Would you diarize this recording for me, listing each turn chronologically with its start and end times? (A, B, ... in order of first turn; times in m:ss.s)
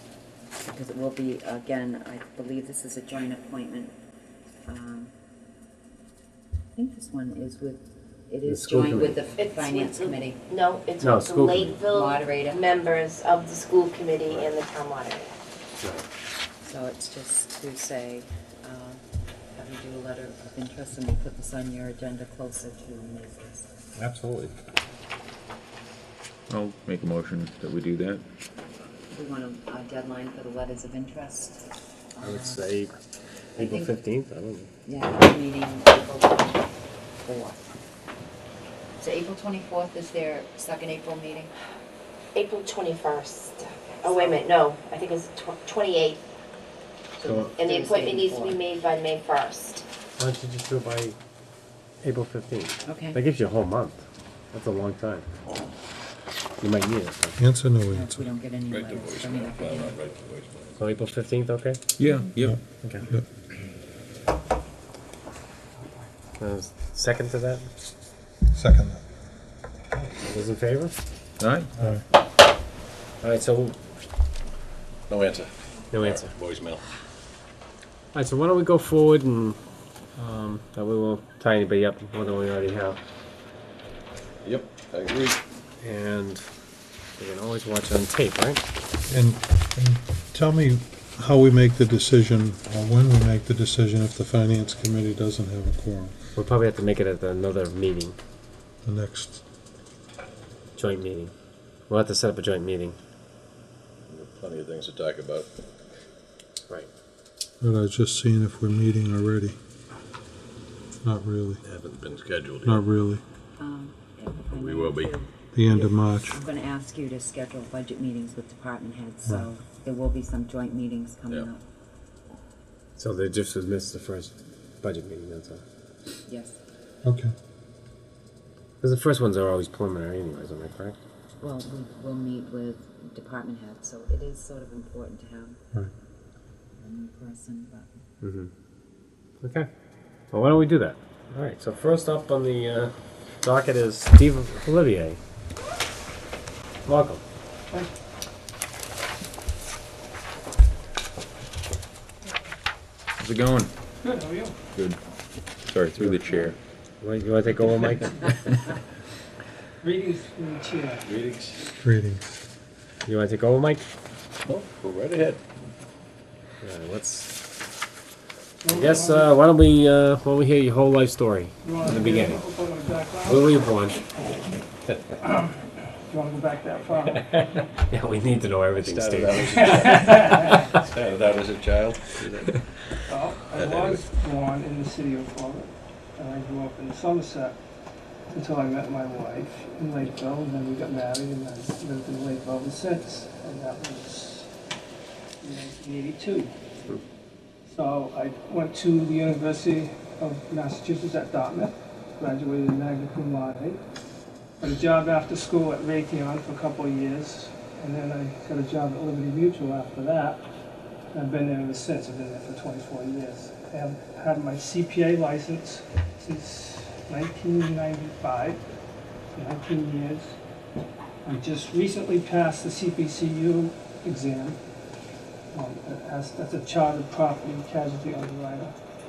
0:00.6-0:03.9 A
0:04.6-0:05.1 A
0:06.7-0:10.4 A
0:08.4-0:09.2 B
0:09.4-0:15.3 C
0:11.0-0:11.7 B
0:11.6-0:12.6 A
0:15.8-0:16.0 B
0:16.6-0:19.0 A
0:19.5-0:23.7 A
0:24.0-0:24.5 B
0:26.5-0:28.2 D
0:29.1-0:32.6 A
0:32.2-0:33.0 B
0:33.5-0:34.7 B
0:33.6-0:33.9 A
0:34.8-0:36.7 A
0:37.2-0:37.6 A
0:39.0-0:41.5 A
0:42.3-0:46.2 C
0:43.9-0:44.4 A
0:47.2-0:48.6 A
0:47.2-0:47.5 B
0:47.5-0:49.8 C
0:50.2-0:51.2 B
0:52.0-0:55.3 B
0:52.8-0:53.2 A
0:56.6-0:57.4 B
0:57.4-0:58.3 E
0:57.9-1:00.0 A
0:58.7-1:00.8 F
1:00.8-1:01.8 B
1:02.0-1:02.6 D
1:02.8-1:03.1 B
1:06.4-1:07.7 B
1:08.5-1:09.0 E
1:09.9-1:11.0 B
1:11.4-1:11.7 D
1:11.8-1:12.0 E
1:13.2-1:13.8 B
1:15.1-1:16.8 F
1:15.9-1:16.3 B
1:18.1-1:19.6 B
1:20.2-1:23.0 B
1:24.4-1:25.4 F
1:25.8-1:26.5 B
1:27.2-1:28.6 B
1:29.1-1:36.1 E
1:36.3-1:38.2 B
1:38.8-1:39.4 E
1:40.7-1:41.3 B
1:41.9-1:43.0 B
1:44.1-1:45.5 F
1:47.6-1:49.6 E
1:51.0-1:51.6 E
1:51.6-1:52.8 F
1:52.6-1:53.2 E
1:53.6-2:01.6 A
1:54.5-1:55.1 F
1:55.5-1:56.4 E
2:03.0-2:05.6 B
2:06.3-2:06.5 A
2:07.0-2:07.3 E
2:08.8-2:11.0 B
2:11.4-2:15.6 A
2:16.8-2:18.0 A
2:18.2-2:18.5 B
2:19.4-2:19.7 B
2:20.3-2:25.2 B
2:26.8-2:27.2 B
2:33.2-2:33.7 D
2:34.0-2:34.6 G
2:34.7-2:35.0 D
2:35.6-2:36.6 D
2:37.0-2:38.5 B
2:39.8-2:41.1 G
2:41.0-2:41.7 F
2:41.8-2:42.2 E
2:43.0-2:43.9 B
2:44.4-2:45.4 F
2:46.6-2:47.3 B
2:48.6-2:49.3 G
2:48.6-2:54.2 B
2:51.6-2:53.5 G
2:55.2-2:57.2 G
2:57.0-3:00.7 B
2:58.8-3:04.2 F
2:59.6-3:00.5 G
3:03.1-3:07.6 G
3:08.3-3:14.5 G
3:15.4-3:16.5 G
3:17.7-3:23.8 G
3:24.6-3:30.4 G
3:31.1-3:38.6 G
3:39.3-3:40.4 G
3:41.2-3:44.6 G
3:45.5-3:48.7 G